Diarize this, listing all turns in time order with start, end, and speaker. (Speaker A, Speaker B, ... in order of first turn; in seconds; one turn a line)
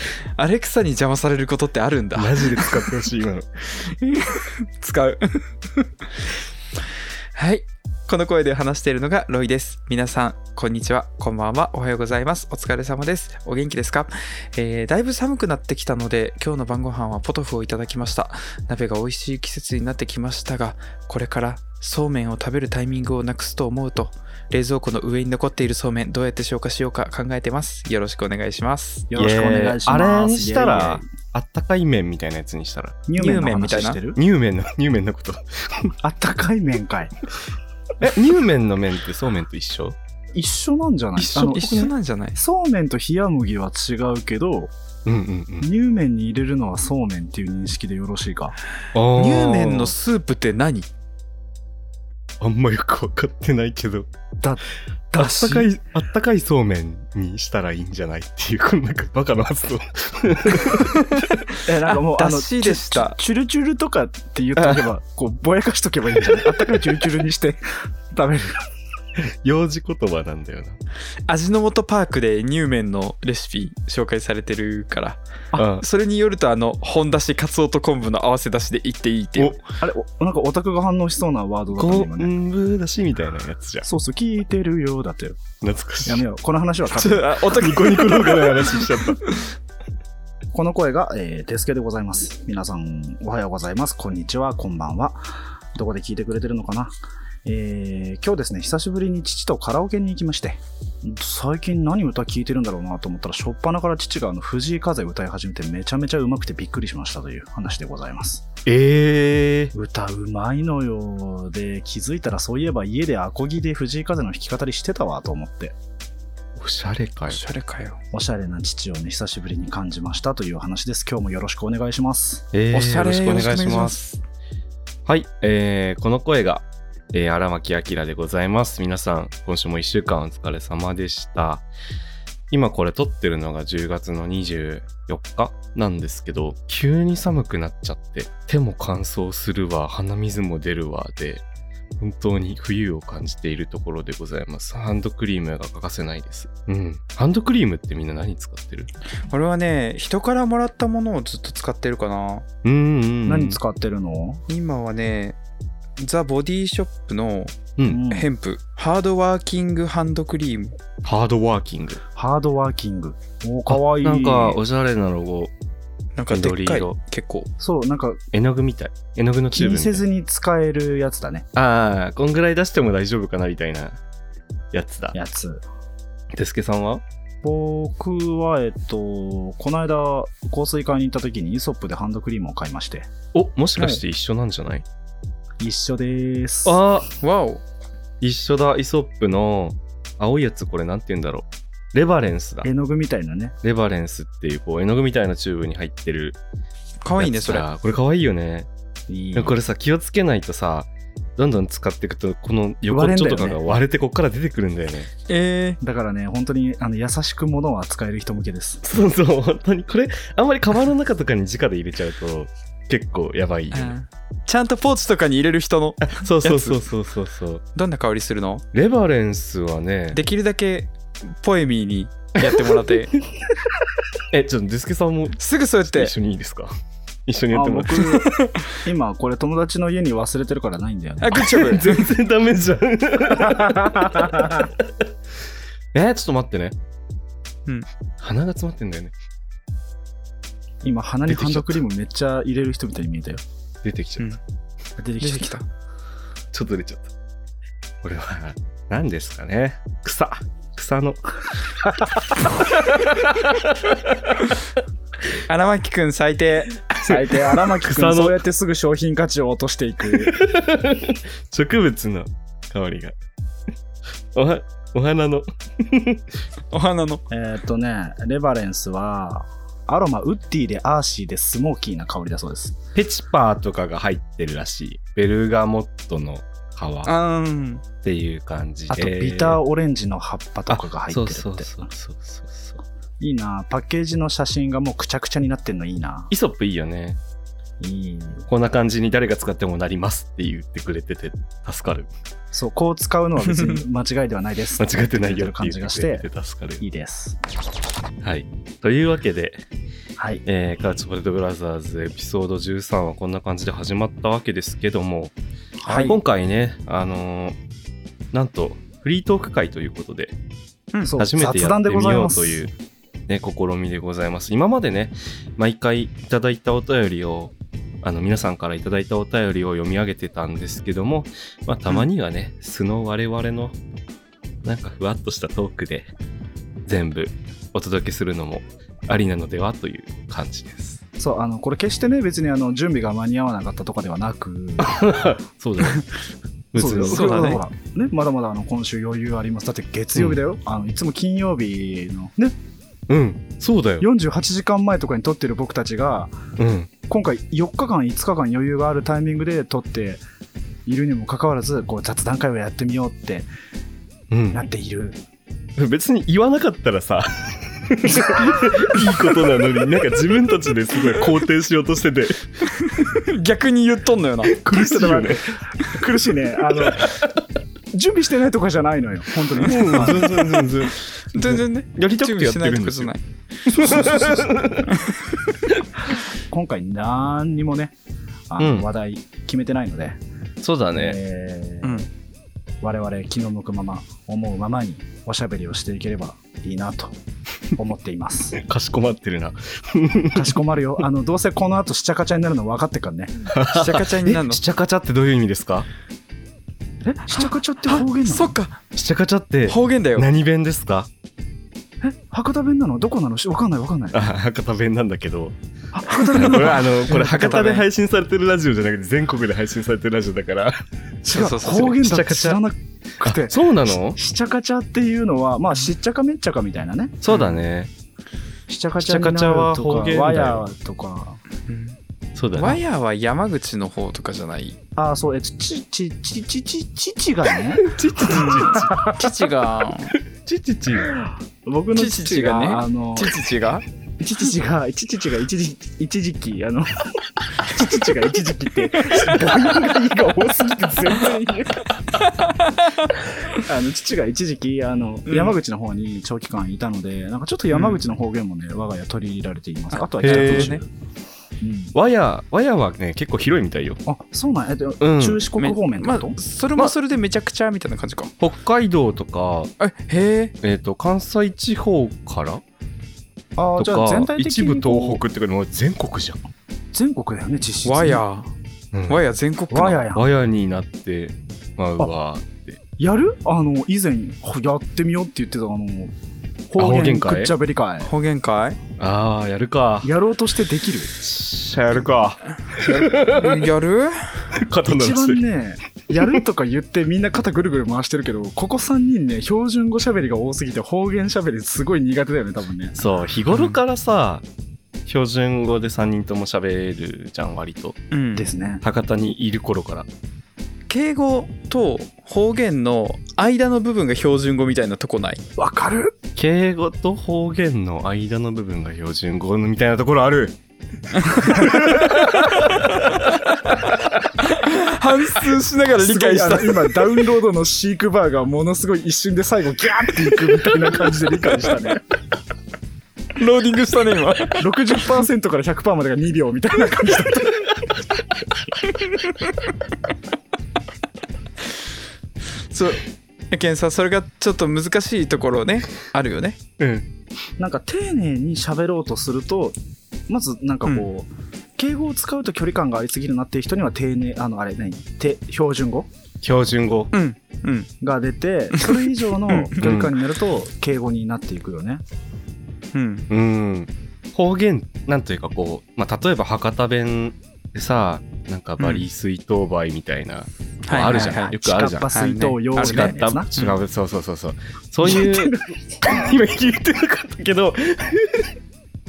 Speaker A: 0.4-2.8
Speaker B: 2.1-3.5
Speaker A: 3.7-5.8
Speaker A: 7.3-29.1
Speaker C: 29.1-31.1
Speaker B: 29.1-33.0
Speaker C: 33.1-34.2
Speaker A: 33.2-34.0
Speaker B: 34.1-35.9
Speaker C: 36.0-37.1
Speaker B: 38.0-40.0
Speaker C: 40.3-44.7
Speaker A: 41.2-42.4
Speaker B: 45.0-45.7
Speaker C: 45.6-48.6
Speaker B: 48.9-49.9
Speaker A: 49.1-50.9
Speaker B: 52.4-54.1
Speaker C: 54.4-55.7
Speaker B: 55.1-61.0
Speaker A: 60.9-63.2
Speaker C: 61.6-68.6
Speaker B: 64.6-64.8
Speaker B: 66.3-66.6
Speaker B: 69.4-70.8
Speaker A: 71.3-75.2
Speaker B: 75.5-75.8
Speaker A: 75.7-79.6
Speaker C: 79.8-82.3
Speaker B: 81.7-83.8
Speaker C: 83.8-85.4
Speaker B: 85.6-86.2
Speaker C: 86.0-87.3
Speaker A: 86.9-89.5
Speaker B: 87.3-89.2
Speaker C: 90.5-108.4
Speaker B: 108.7-109.7
Speaker C: 109.7-115.7
Speaker B: 116.5-117.4
Speaker A: 117.3-118.0
Speaker C: 118.1-122.5
Speaker B: 122.5-124.0
Speaker A: 122.7-124.2
Speaker B: 125.0-131.6
Speaker B: 132.5-141.4
Speaker B: 142.0-148.9
Speaker A: 149.3-152.4
Speaker B: 152.6-153.6
Speaker C: 153.2-154.4
Speaker A: 154.5-155.4
Speaker A: 156.0-160.8
Speaker B: 157.8-158.0
Speaker C: 157.8-158.3
Speaker B: 161.0-162.0
Speaker C: 162.2-164.6
Speaker B: 163.7-165.5
Speaker A: 166.2-167.5
Speaker B: 166.3-167.0
Speaker C: 167.6-168.2
Speaker B: 168.3-170.0
Speaker C: 169.5-171.5
Speaker B: 171.5-174.0
Speaker B: 174.7-175.2
Speaker C: 175.1-175.6
Speaker B: 176.3-177.0
Speaker C: 177.4-183.1
Speaker B: 183.3-184.8
Speaker C: 185.6-186.8
Speaker B: 186.6-187.1
Speaker A: 187.2-187.6
Speaker B: 188.2-192.7
Speaker C: 192.6-193.6
Speaker B: 193.6-196.4
Speaker A: 197.0-197.7
Speaker B: 197.2-198.7
Speaker C: 199.1-199.5
Speaker B: 199.3-205.1
Speaker C: 202.9-203.7
Speaker A: 205.3-205.8
Speaker C: 205.8-208.8
Speaker B: 208.8-213.9
Speaker A: 213.7-216.8
Speaker B: 216.0-217.6
Speaker A: 217.7-218.6
Speaker B: 218.7-220.2
Speaker A: 220.1-223.1
Speaker B: 224.3-226.7
Speaker A: 225.4-226.1
Speaker B: 227.2-228.2
Speaker C: 227.5-231.5
Speaker A: 228.0-228.7
Speaker A: 231.2-232.1
Speaker B: 231.4-234.6
Speaker C: 233.4-234.7
Speaker B: 235.9-236.8
Speaker B: 238.2-239.1
Speaker C: 240.8-243.4
Speaker B: 241.3-241.8
Speaker B: 243.8-244.3
Speaker C: 245.0-245.5
Speaker A: 245.2-245.7
Speaker B: 246.5-247.1
Speaker B: 248.0-251.2
Speaker B: 252.9-254.4
Speaker A: 255.5-256.8
Speaker C: 257.0-260.4
Speaker B: 257.0-258.4
Speaker B: 260.2-263.1
Speaker B: 264.3-266.2
Speaker A: 266.7-267.2
Speaker C: 267.3-272.8
Speaker B: 272.9-277.1
Speaker A: 277.0-277.8
Speaker B: 278.0-279.6
Speaker C: 278.9-281.7
Speaker B: 280.7-282.8
Speaker C: 283.2-286.3
Speaker B: 286.3-287.2
Speaker C: 287.8-288.4
Speaker B: 288.5-292.1
Speaker C: 292.5-296.2
Speaker B: 294.8-296.8
Speaker C: 296.8-297.4
Speaker B: 298.2-299.6
Speaker C: 300.2-300.4
Speaker B: 300.4-305.3
Speaker C: 305.8-306.2
Speaker B: 305.9-307.6
Speaker B: 308.3-310.3
Speaker C: 311.0-312.6
Speaker B: 311.2-312.7
Speaker B: 313.3-323.8
Speaker B: 324.6-326.1
Speaker B: 326.8-331.0
Speaker C: 331.2-335.1
Speaker B: 334.8-336.0
Speaker B: 336.7-337.6
Speaker C: 336.7-342.5
Speaker A: 337.1-337.6
Speaker B: 340.1-340.4
Speaker B: 343.1-344.1
Speaker C: 344.0-346.4
Speaker B: 346.6-346.9
Speaker C: 347.1-350.2
Speaker C: 350.9-353.5
Speaker B: 354.3-354.6
Speaker C: 354.5-355.2
Speaker B: 355.8-362.4
Speaker C: 358.0-358.8
Speaker A: 362.8-365.3
Speaker B: 364.4-365.4
Speaker C: 364.8-367.2
Speaker C: 367.9-370.5
Speaker B: 369.6-373.1
Speaker A: 371.3-373.2
Speaker B: 373.7-374.9
Speaker A: 373.8-374.1
Speaker A: 374.9-375.1
Speaker C: 376.5-377.9
Speaker C: 378.5-380.2
Speaker B: 378.6-378.9
Speaker B: 380.6-381.2
Speaker C: 380.9-382.1
Speaker A: 381.8-382.1
Speaker C: 382.8-387.1
Speaker C: 387.8-388.6
Speaker B: 388.5-390.6
Speaker C: 390.3-393.5
Speaker B: 393.5-395.9
Speaker A: 393.7-394.6
Speaker C: 397.0-398.5
Speaker A: 397.4-398.8
Speaker B: 398.9-401.1
Speaker A: 399.7-400.3
Speaker C: 402.0-404.2
Speaker B: 404.1-405.6
Speaker C: 405.9-407.8
Speaker B: 406.1-410.7
Speaker C: 411.2-417.2
Speaker A: 411.3-412.0
Speaker B: 411.9-412.6
Speaker B: 413.2-414.2
Speaker B: 417.2-417.9
Speaker A: 417.3-417.6
Speaker C: 418.7-421.4
Speaker B: 419.0-420.6
Speaker A: 421.7-422.0
Speaker B: 422.3-422.8
Speaker A: 422.5-424.8
Speaker C: 424.9-429.4
Speaker B: 427.9-428.9
Speaker A: 428.2-430.1
Speaker B: 430.4-431.1
Speaker C: 431.1-433.4
Speaker A: 431.9-433.8
Speaker C: 434.2-441.9
Speaker A: 442.3-443.1
Speaker C: 443.2-450.9
Speaker A: 445.3-445.6
Speaker A: 447.7-448.0
Speaker A: 449.9-450.8
Speaker B: 450.2-450.8
Speaker C: 451.6-451.9
Speaker B: 451.9-454.0
Speaker C: 454.1-456.4
Speaker B: 455.0-455.4
Speaker A: 455.5-458.3
Speaker B: 458.4-459.7
Speaker A: 459.8-460.5
Speaker B: 460.6-462.6
Speaker C: 463.6-465.2
Speaker B: 463.8-466.5
Speaker C: 466.9-468.2
Speaker A: 467.8-468.5
Speaker B: 468.9-469.2
Speaker A: 469.1-470.0
Speaker C: 469.7-470.2
Speaker B: 470.1-472.8
Speaker C: 473.0-476.1
Speaker C: 476.7-478.1
Speaker B: 476.8-477.5
Speaker A: 478.0-478.8
Speaker B: 479.0-480.1
Speaker C: 480.0-481.1
Speaker B: 481.2-483.7
Speaker A: 482.7-484.4
Speaker B: 484.5-485.4
Speaker C: 484.8-493.0
Speaker B: 492.9-494.4
Speaker A: 493.5-493.8
Speaker B: 495.1-498.0
Speaker A: 498.1-498.5
Speaker C: 498.4-498.8
Speaker B: 498.8-500.1
Speaker A: 500.9-505.4
Speaker C: 505.6-506.1
Speaker B: 506.4-510.5
Speaker A: 511.2-511.7
Speaker B: 511.5-513.1
Speaker C: 511.5-512.0
Speaker A: 513.2-513.8
Speaker A: 514.4-517.1
Speaker C: 516.0-522.0
Speaker A: 523.3-524.7
Speaker C: 524.6-527.8
Speaker A: 528.8-529.5
Speaker A: 532.7-536.6
Speaker B: 536.8-537.0
Speaker C: 537.6-539.8
Speaker C: 540.3-546.1
Speaker B: 546.4-547.1
Speaker A: 547.1-547.9
Speaker C: 548.0-552.0
Speaker A: 549.5-549.9
Speaker B: 549.8-550.2
Speaker A: 552.9-553.3
Speaker B: 553.3-562.1
Speaker A: 558.8-559.0
Speaker A: 560.9-561.5
Speaker C: 561.0-563.5
Speaker A: 562.1-563.8
Speaker B: 562.7-568.5
Speaker C: 565.0-566.3